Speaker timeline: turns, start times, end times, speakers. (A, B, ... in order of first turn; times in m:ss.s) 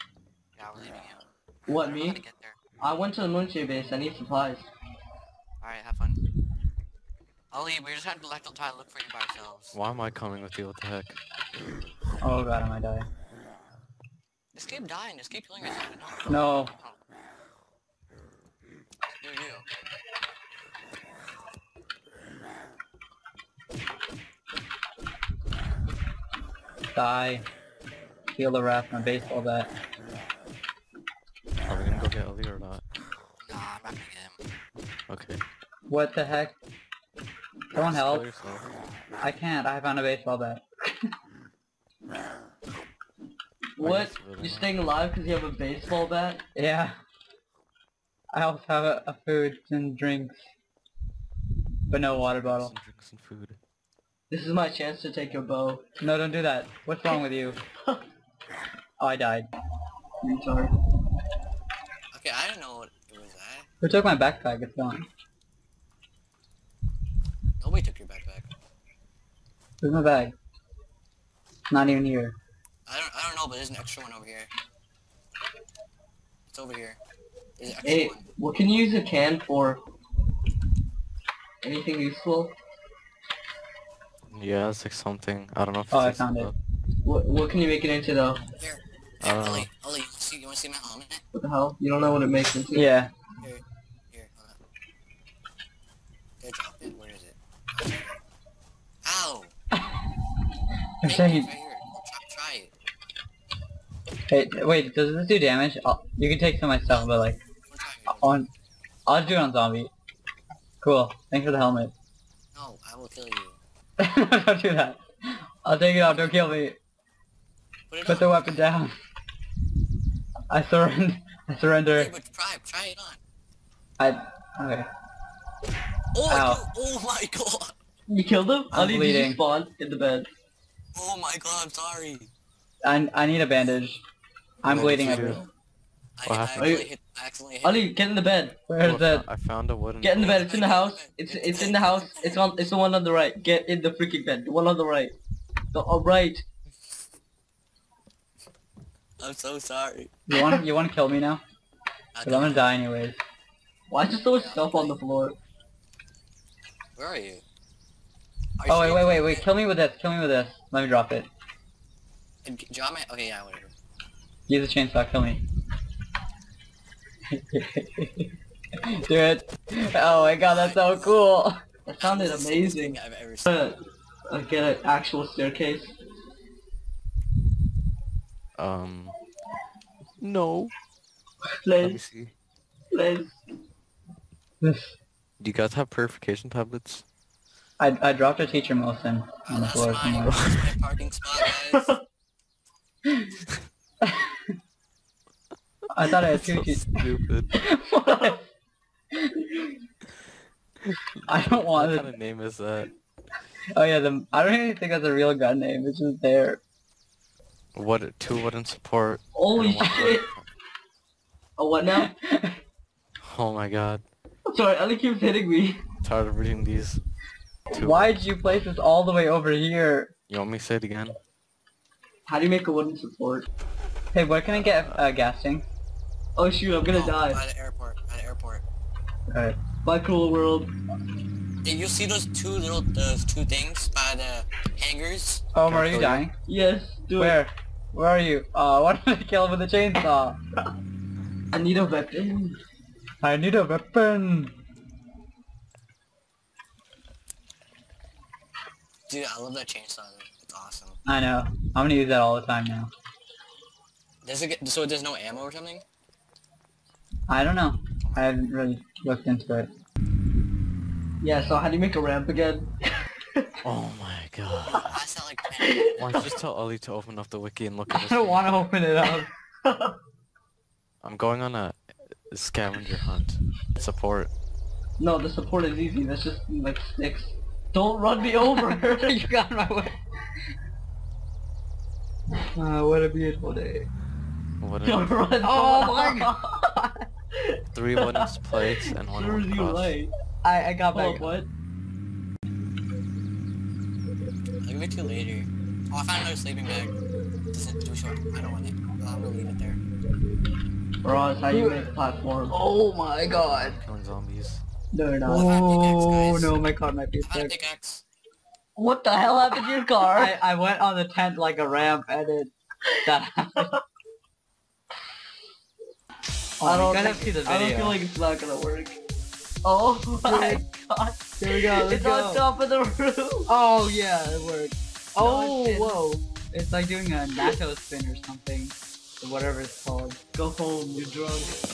0:00.6-0:02.6 A
0:01.7-0:02.2 B
0:02.8-0:04.7 B
0:05.6-0:06.2 A
0:07.5-0:09.8 A
0:09.7-0:11.2 C
0:12.2-0:13.1 D
0:14.5-0:17.0 A
0:16.3-0:16.7 D
0:19.1-0:19.7 A
0:27.0-0:27.5 D
0:28.3-0:29.7 D
0:31.7-0:32.8 C
0:33.5-0:34.4 A
0:35.1-0:35.4 C
0:35.9-0:36.6 D
0:37.7-0:38.3 D
0:37.8-0:38.7 C
0:39.2-0:40.7 D
0:43.8-0:46.4 B
0:43.8-0:44.9 C
0:46.6-0:47.0 D
0:48.3-0:50.4 D
0:51.9-0:52.7 D
0:52.4-0:53.6 C
0:54.3-0:55.8 B
0:56.0-0:57.6 D
0:59.0-0:59.5 D
1:00.2-1:00.7 B
1:02.1-1:03.7 A
1:03.8-1:05.1 D
1:07.6-1:08.5 A
1:09.8-1:10.4 D
1:11.7-1:12.4 D
1:12.9-1:14.5 A
1:16.5-1:17.0 A
1:17.6-1:18.3 A
1:17.8-1:19.8 B
1:21.6-1:22.6 B
1:24.3-1:26.6 C
1:25.9-1:26.5 D
1:27.0-1:28.4 B
1:28.6-1:31.2 A
1:29.2-1:29.7 C
1:31.3-1:32.9 B
1:32.7-1:33.1 D
1:33.4-1:34.6 A
1:36.4-1:38.2 A
1:39.0-1:39.5 A
1:41.0-1:41.5 D
1:41.1-1:42.7 A
1:44.3-1:47.4 D
1:47.7-1:48.4 A
1:48.1-1:48.5 D
1:49.1-1:49.9 D
1:50.8-1:51.9 D
1:52.5-1:53.6 A
1:54.0-1:55.0 D
1:55.6-1:56.8 D
1:57.9-1:58.6 A
1:58.1-1:58.9 D
2:00.5-2:02.1 D
2:01.9-2:03.2 A
2:04.0-2:04.9 D
2:06.1-2:07.8 A
2:06.3-2:06.6 D
2:08.1-2:10.3 B
2:08.7-2:09.4 D
2:11.0-2:12.3 A
2:12.8-2:14.0 D
2:14.6-2:15.4 D
2:14.6-2:15.4 C
2:14.7-2:15.5 A
2:16.2-2:17.9 A
2:16.2-2:16.8 C
2:16.6-2:16.9 B
2:17.6-2:18.6 B
2:18.7-2:19.3 D
2:18.8-2:20.4 C
2:20.0-2:25.2 B
2:20.1-2:22.5 A
2:25.7-2:26.4 B
2:29.2-2:30.1 A
2:30.3-2:31.4 D
2:32.2-2:32.7 A
2:32.2-2:33.2 D
2:33.9-2:35.4 B
2:34.3-2:35.0 A
2:37.0-2:37.4 A
2:38.6-2:39.5 A
2:38.7-2:41.3 D
2:42.4-2:43.7 A
2:44.5-2:45.4 D
2:47.3-2:48.3 D
2:48.9-2:51.6 D
2:50.0-2:51.2 A
2:51.9-2:55.9 B
2:52.0-2:53.7 A
2:58.6-2:59.2 C
3:00.2-3:00.7 C
3:01.6-3:02.0 B
3:01.8-3:02.3 C
3:02.9-3:03.4 B
3:04.6-3:05.0 D
3:05.4-3:07.1 C
3:07.8-3:10.4 D
3:09.4-3:12.0 A
3:10.2-3:10.7 C
3:11.4-3:12.0 B
3:14.0-3:14.5 D
3:15.9-3:17.0 D
3:16.2-3:17.5 C
3:17.6-3:18.4 D
3:18.1-3:18.4 B
3:20.9-3:22.9 C
3:21.3-3:22.1 D
3:23.8-3:26.6 D
3:27.8-3:30.5 C
3:29.3-3:30.3 B
3:31.6-3:32.1 B
3:31.9-3:32.6 D
3:33.2-3:34.0 C
3:34.5-3:35.8 B
3:36.0-3:37.0 C
3:37.7-3:38.3 C
3:37.7-3:40.1 D
3:40.3-3:41.2 C
3:42.3-3:43.5 B
3:44.1-3:45.7 D
3:44.5-3:45.0 C
3:46.4-3:47.4 B
3:46.9-3:48.6 A
3:49.3-3:49.6 D
3:49.8-3:50.7 B
3:51.6-3:55.5 A
3:55.5-3:56.4 D
3:55.6-3:56.3 C
3:56.5-3:57.4 B
3:57.2-4:00.4 D
4:01.5-4:02.6 B
4:03.2-4:04.6 D
4:09.1-4:11.0 A
4:11.0-4:12.9 D
4:14.2-4:15.8 A
4:17.3-4:19.7 D
4:21.2-4:22.7 B
4:23.6-4:25.0 C
4:24.7-4:25.8 A
4:25.6-4:26.0 B
4:25.9-4:28.5 C
4:27.9-4:29.3 D
4:29.6-4:30.0 B
4:31.0-4:34.3 C
4:35.0-4:39.2 B
4:38.5-4:40.0 D
4:42.6-4:43.9 D
4:44.6-4:45.2 C
4:44.8-4:46.7 B
4:45.4-4:46.9 D
4:47.4-4:48.3 B
4:47.7-4:50.0 C
4:49.0-4:50.1 B
4:50.4-4:51.4 D
4:50.9-4:51.5 B
4:54.6-4:57.0 A
4:57.5-4:59.8 A
5:01.0-5:02.6 B
5:01.5-5:01.9 D
5:02.5-5:03.8 D
5:03.3-5:04.6 C
5:04.9-5:05.5 B
5:05.2-5:07.6 D
5:05.3-5:06.6 A
5:07.2-5:08.0 A
5:08.8-5:10.4 B
5:10.1-5:12.5 D
5:13.0-5:13.7 D
5:16.6-5:18.0 D
5:16.6-5:19.0 B
5:19.6-5:23.5 B
5:20.2-5:20.6 D
5:21.4-5:22.4 D
5:23.5-5:30.2 D
5:25.2-5:26.0 B
5:30.3-5:31.6 B